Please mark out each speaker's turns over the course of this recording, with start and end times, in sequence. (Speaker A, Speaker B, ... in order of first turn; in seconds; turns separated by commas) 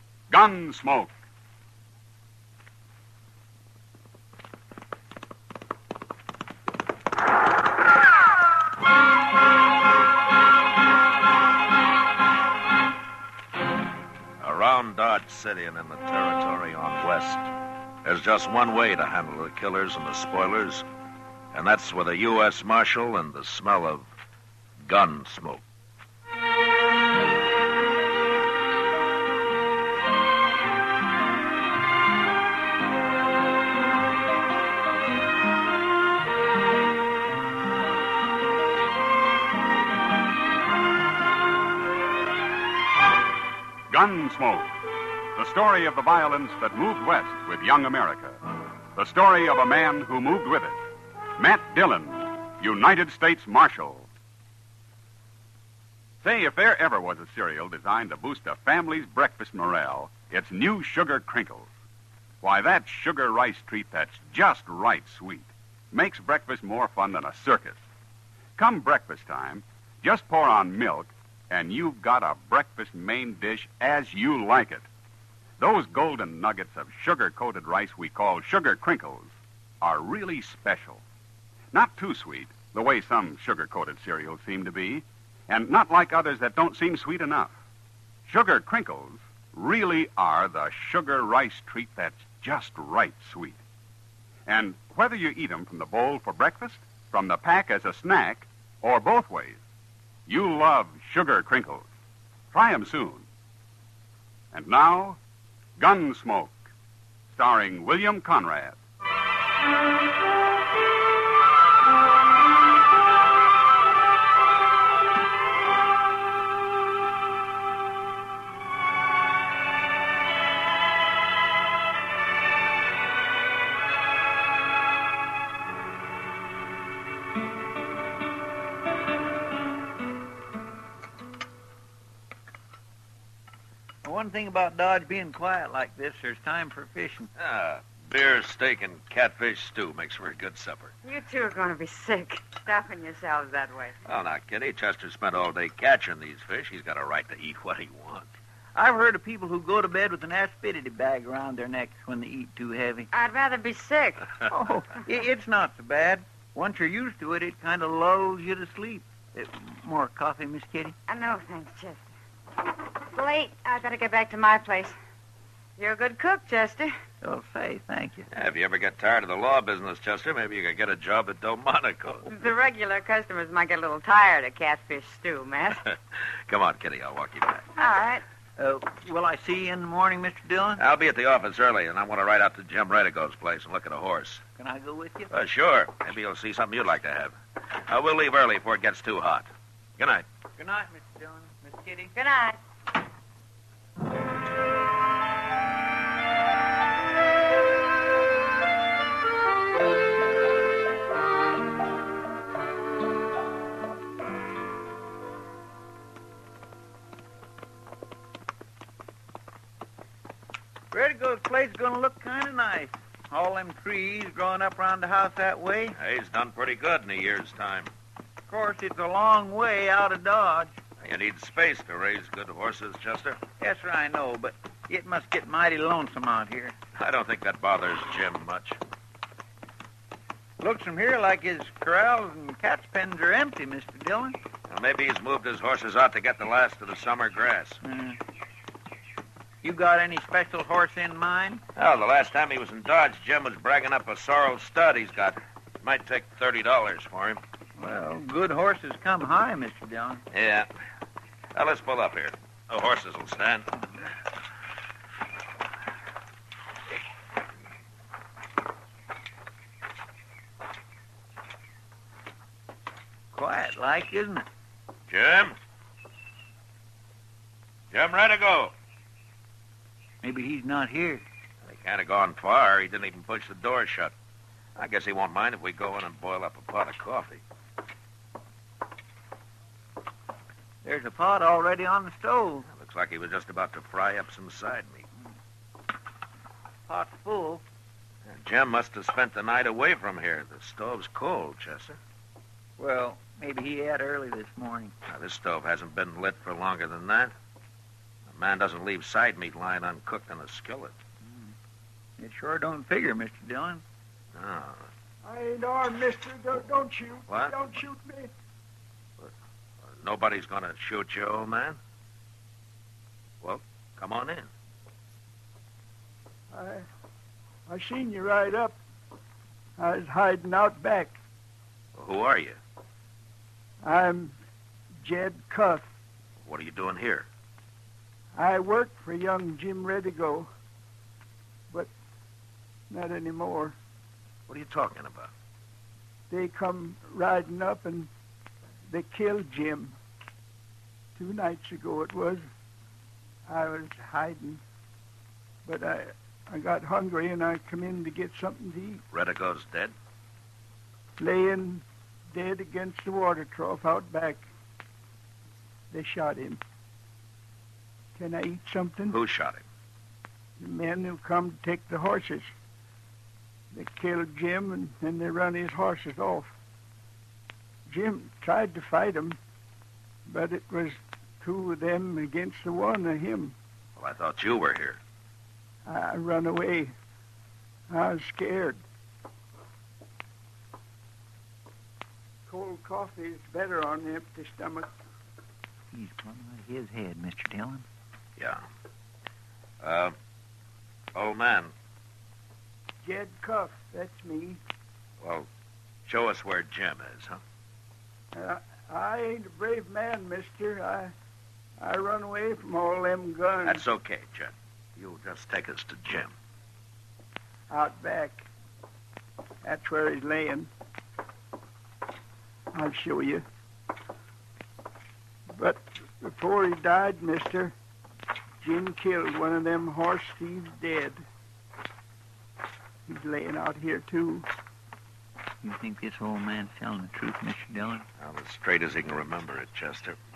Speaker A: 0.3-1.2, Speaker B: 14.4-17.5, Speaker B: 18.0-20.9, Speaker B: 21.5-24.1, Speaker B: 24.8-25.6, Speaker A: 43.9-44.7, Speaker A: 45.4-48.4, Speaker A: 49.0-50.8, Speaker A: 51.4-54.1, Speaker A: 56.2-61.7, Speaker A: 62.4-67.8, Speaker A: 68.6-74.9, Speaker A: 75.6-81.0, Speaker A: 81.7-87.5, Speaker A: 88.2-93.6, Speaker A: 94.5-99.6, Speaker A: 100.3-101.9, Speaker A: 102.5-103.2, Speaker A: 104.5-105.2, Speaker A: 105.8-106.6, Speaker A: 107.3-108.8, Speaker C: 134.0-137.3, Speaker B: 137.4-140.9, Speaker D: 141.0-143.9, Speaker B: 144.1-148.3, Speaker C: 148.7-153.1, Speaker D: 153.1-154.3, Speaker C: 154.5-161.0, Speaker D: 161.1-162.1, Speaker D: 163.1-165.0, Speaker D: 165.8-166.9, Speaker C: 167.2-168.3, Speaker B: 168.3-172.3, Speaker D: 172.3-175.9, Speaker B: 176.5-177.7, Speaker D: 177.8-178.2, Speaker C: 178.6-180.8, Speaker B: 180.8-184.4, Speaker C: 184.6-185.3, Speaker B: 185.3-187.3, Speaker B: 187.9-189.5, Speaker B: 190.0-190.2, Speaker C: 190.6-192.1, Speaker D: 192.1-192.6, Speaker C: 210.9-215.9, Speaker B: 216.0-217.9, Speaker C: 218.5-220.7, Speaker B: 221.0-223.4, Speaker C: 223.6-226.7, Speaker B: 226.9-228.8, Speaker C: 230.6-234.4, Speaker B: 234.7-237.8, Speaker C: 237.8-238.2, Speaker C: 239.6-241.6, Speaker B: 241.8-247.4, Speaker C: 247.8-250.2, Speaker B: 250.3-250.7, Speaker B: 251.5-253.8, Speaker C: 263.3-264.4, Speaker B: 265.1-265.6, Speaker B: 267.9-268.7, Speaker C: 270.2-271.2, Speaker B: 271.6-274.1, Speaker B: 274.8-277.4, Speaker C: 280.8-282.6, Speaker B: 282.7-285.0, Speaker C: 286.9-287.6, Speaker B: 288.2-292.0, Speaker C: 292.8-294.9, Speaker B: 295.1-297.3, Speaker B: 298.3-300.9, Speaker C: 301.2-301.5, Speaker C: 302.2-303.8, Speaker B: 304.3-304.9, Speaker E: 305.2-308.3, Speaker B: 307.3-307.6, Speaker B: 309.9-311.8, Speaker B: 313.4-314.5, Speaker E: 316.5-316.8, Speaker E: 317.7-318.8, Speaker E: 319.8-321.2, Speaker B: 321.9-322.6, Speaker E: 323.8-324.4, Speaker E: 325.0-325.9, Speaker B: 326.4-327.3, Speaker E: 328.4-330.5, Speaker E: 332.9-333.8, Speaker B: 334.5-335.3, Speaker E: 336.3-338.1, Speaker E: 338.9-339.9, Speaker E: 341.1-342.4, Speaker E: 343.5-344.6, Speaker E: 345.6-349.0, Speaker B: 349.1-349.9, Speaker E: 351.2-354.4, Speaker E: 355.9-356.6, Speaker E: 358.1-359.2, Speaker B: 359.1-359.6, Speaker E: 360.6-362.5, Speaker E: 363.7-366.5, Speaker E: 367.9-369.4, Speaker E: 370.3-373.5, Speaker B: 374.0-375.0, Speaker E: 375.9-376.9, Speaker E: 377.9-378.8, Speaker E: 382.5-384.9, Speaker C: 385.9-387.9, Speaker B: 388.4-388.6, Speaker B: 389.8-390.1, Speaker B: 391.1-391.7, Speaker E: 393.0-394.6, Speaker B: 395.2-395.5, Speaker B: 396.1-397.4, Speaker E: 398.3-401.1, Speaker E: 401.8-403.8, Speaker B: 403.6-406.3, Speaker E: 407.7-408.4, Speaker E: 409.6-410.7, Speaker E: 412.7-413.4, Speaker E: 415.6-417.7, Speaker E: 418.6-421.2, Speaker E: 423.1-424.5, Speaker C: 425.6-428.0, Speaker B: 428.2-430.2